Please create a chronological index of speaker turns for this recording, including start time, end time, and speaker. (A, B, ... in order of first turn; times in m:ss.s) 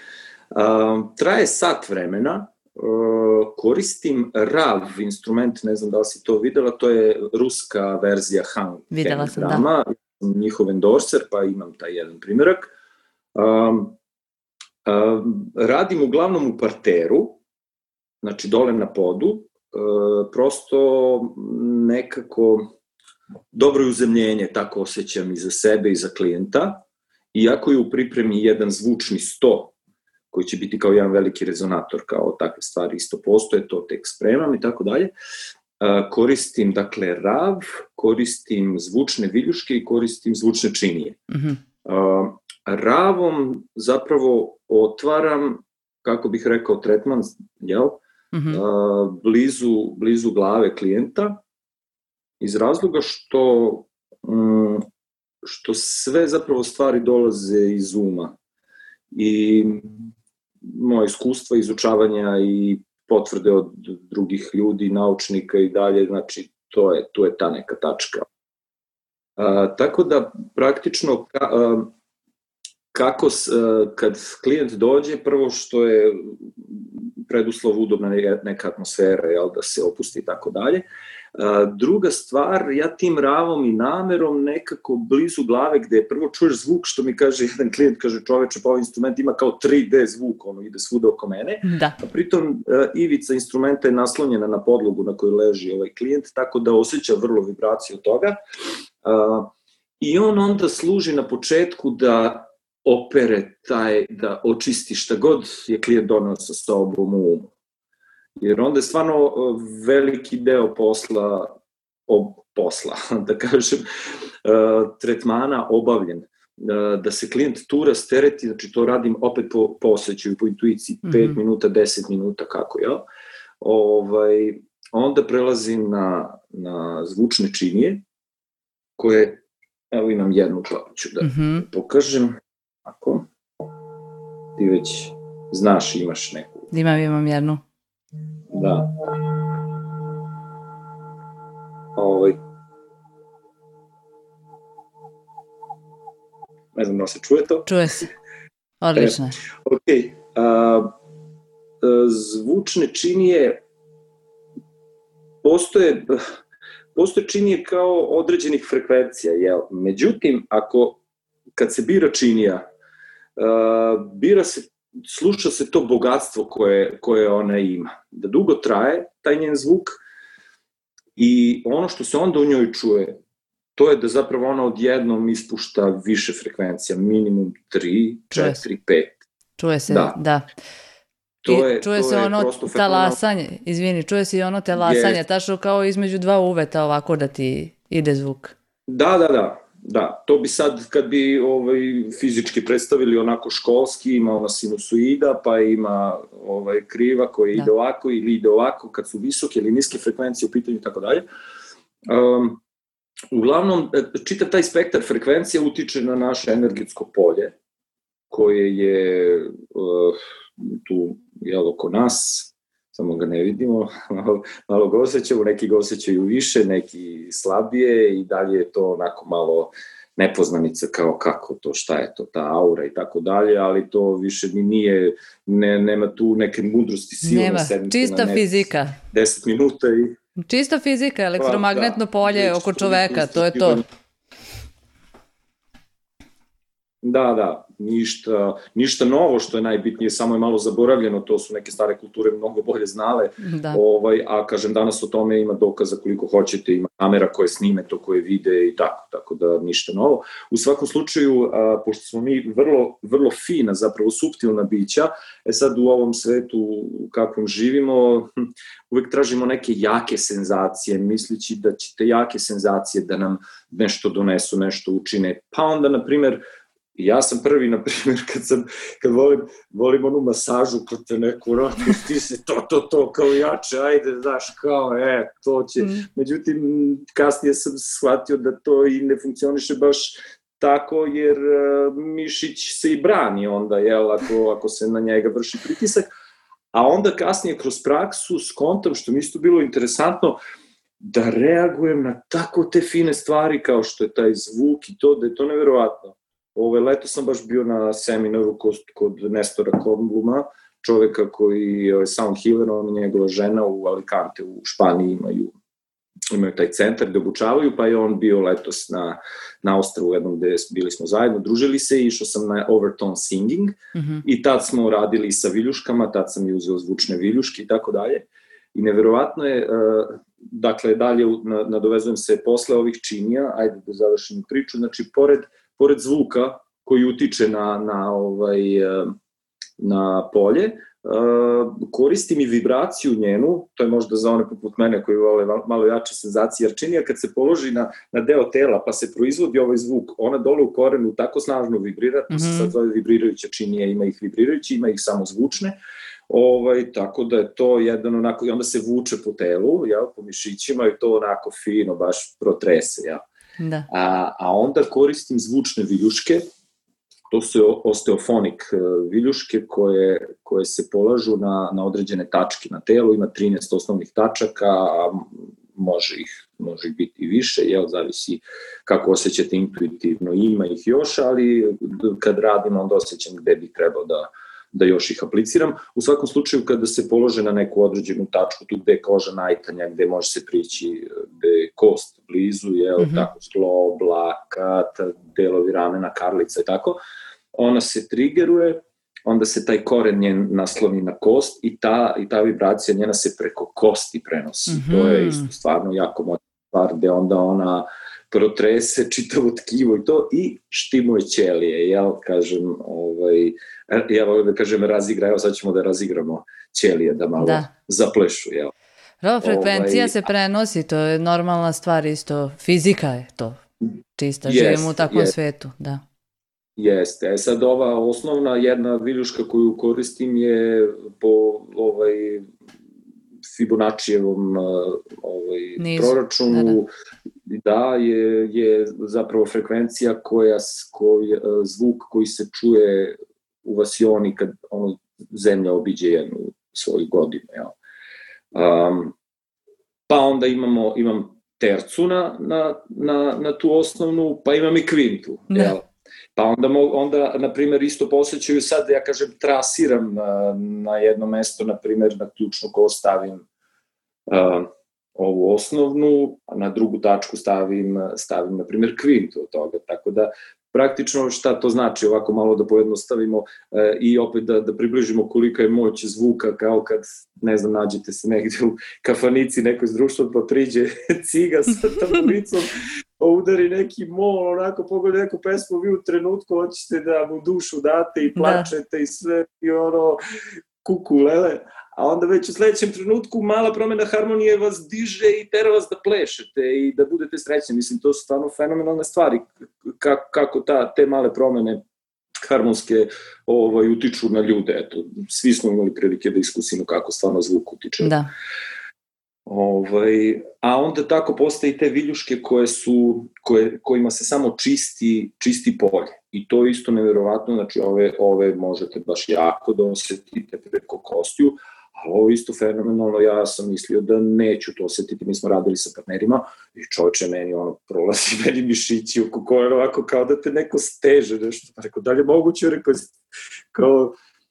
0:00.5-0:12.7 A
0:08.9-0:09.6 B
0:13.3-0:14.0 A
0:14.8-0:17.4 A
0:18.2-0:22.7 A
0:23.5-0:29.7 A
0:30.3-0:35.1 A
0:35.8-0:41.2 A
0:41.3-0:41.6 B
0:41.8-0:51.4 A
0:48.3-0:48.6 B
0:52.4-0:54.8 A
0:55.4-0:58.4 A
0:59.1-1:00.0 A
1:00.6-1:08.2 A
1:09.4-1:11.9 A
1:12.9-1:20.8 A
1:21.3-1:38.4 A
1:31.6-1:32.0 B
1:39.0-1:47.5 A
1:48.4-1:51.6 A
1:52.1-1:53.8 A
1:54.4-2:03.0 A
2:01.0-2:01.4 B
2:03.6-2:08.0 A
2:09.0-2:13.3 A
2:11.2-2:11.6 B
2:14.6-2:16.7 A
2:16.7-2:17.6 B
2:18.5-2:18.9 A
2:22.0-2:22.4 A
2:26.7-2:28.1 A
2:27.7-2:28.1 B
2:28.8-2:29.4 B
2:28.9-2:30.9 A
2:31.8-2:33.6 A
2:35.4-2:36.2 A
2:36.9-2:41.0 A
2:41.6-2:42.6 A
2:43.4-2:50.0 A
2:51.2-2:53.2 A
2:53.8-2:59.2 A
2:58.3-2:58.6 B
2:59.6-3:00.5 B
2:59.9-3:00.2 A
3:01.4-3:03.2 A
3:01.5-3:08.5 B
3:04.8-3:05.2 A
3:08.9-3:21.2 A
3:22.1-3:22.6 A
3:23.3-3:27.5 A
3:28.3-3:50.1 A
3:47.2-3:49.0 B
3:50.4-3:53.8 B
3:51.4-3:53.8 A
3:57.0-4:18.3 A
4:03.4-4:03.8 B
4:18.9-4:26.4 A
4:26.9-4:46.1 A
4:46.7-4:50.4 A
4:51.0-5:05.5 A
5:06.3-5:29.1 A
5:13.9-5:14.2 B
5:29.8-5:45.8 A
5:42.3-5:42.7 B
5:46.3-5:53.2 A
5:53.6-5:53.9 B
5:53.9-5:56.4 A
5:57.3-6:27.0 A
6:23.0-6:23.2 B
6:27.5-6:48.7 A
6:34.7-6:35.5 B
6:47.4-6:47.7 B
6:49.2-6:53.6 B
6:49.4-6:50.3 A
6:54.2-6:56.0 B
6:54.4-6:55.3 A
6:56.8-7:02.4 A
7:03.5-7:06.9 A
7:05.8-7:06.8 B
7:07.5-7:17.8 A
7:18.5-7:19.1 A
7:20.1-7:33.4 A
7:34.3-8:00.2 A
7:58.4-7:58.7 B
8:00.8-8:11.8 A
8:12.4-8:18.2 A
8:18.0-8:18.3 B
8:19.4-8:43.1 A
8:43.7-8:44.2 A